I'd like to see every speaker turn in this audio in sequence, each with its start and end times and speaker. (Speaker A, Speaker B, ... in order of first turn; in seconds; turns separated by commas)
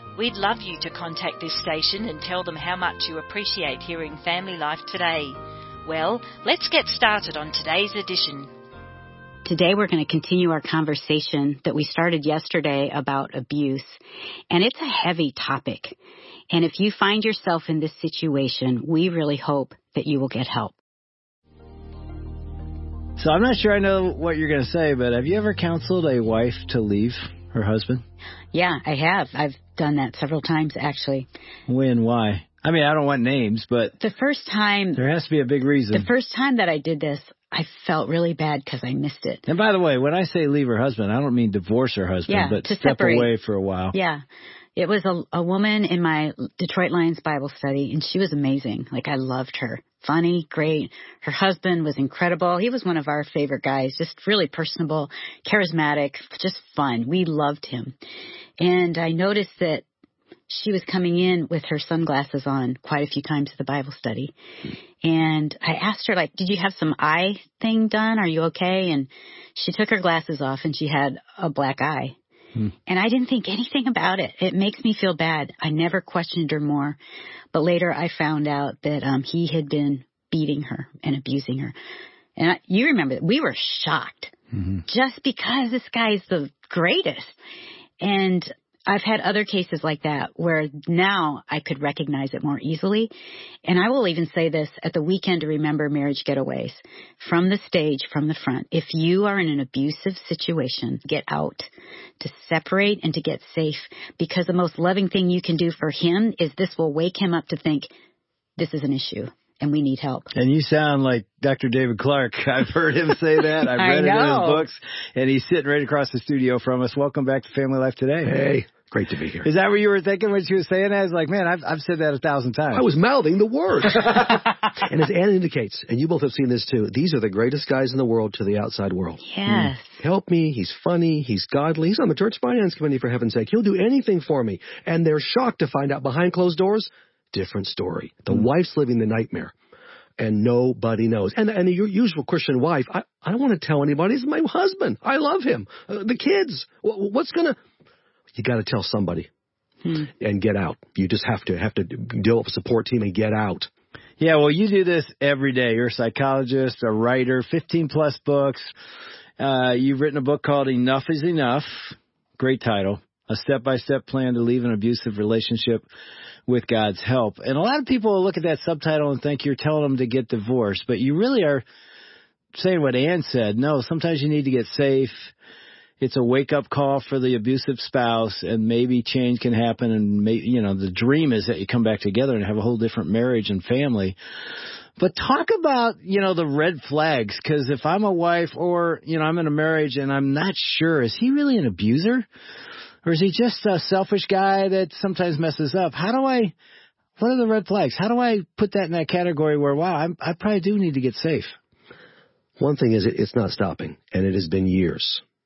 Speaker A: 0.1-8.5, Speaker B: 9.4-14.0, Speaker B: 14.5-16.0, Speaker B: 16.5-20.8, Speaker C: 23.2-28.0, Speaker B: 28.5-31.3, Speaker C: 31.7-33.9, Speaker B: 34.0-35.0, Speaker C: 35.0-36.1, Speaker B: 35.9-39.4, Speaker C: 39.5-43.9, Speaker B: 42.3-43.3, Speaker B: 43.9-44.2, Speaker B: 44.8-57.9, Speaker B: 58.6-59.8, Speaker B: 60.5-64.3, Speaker B: 65.0-72.1, Speaker B: 72.9-77.0, Speaker B: 77.5-81.7, Speaker B: 82.4-84.3, Speaker B: 84.8-87.4, Speaker B: 88.0-93.1, Speaker B: 93.6-107.9, Speaker B: 108.6-110.3, Speaker C: 110.3-118.4, Speaker B: 113.6-114.7, Speaker D: 118.2-119.5, Speaker C: 119.4-122.9, Speaker D: 122.7-129.2, Speaker B: 129.2-130.0, Speaker D: 130.0-139.5, Speaker D: 140.2-147.6, Speaker D: 148.3-149.3, Speaker D: 150.2-153.7, Speaker C: 154.2-158.7, Speaker C: 159.4-165.8, Speaker C: 166.5-171.6, Speaker C: 172.5-175.3, Speaker C: 176.0-184.2, Speaker C: 185.0-192.2, Speaker C: 193.0-196.5, Speaker C: 197.2-201.5, Speaker D: 202.6-205.2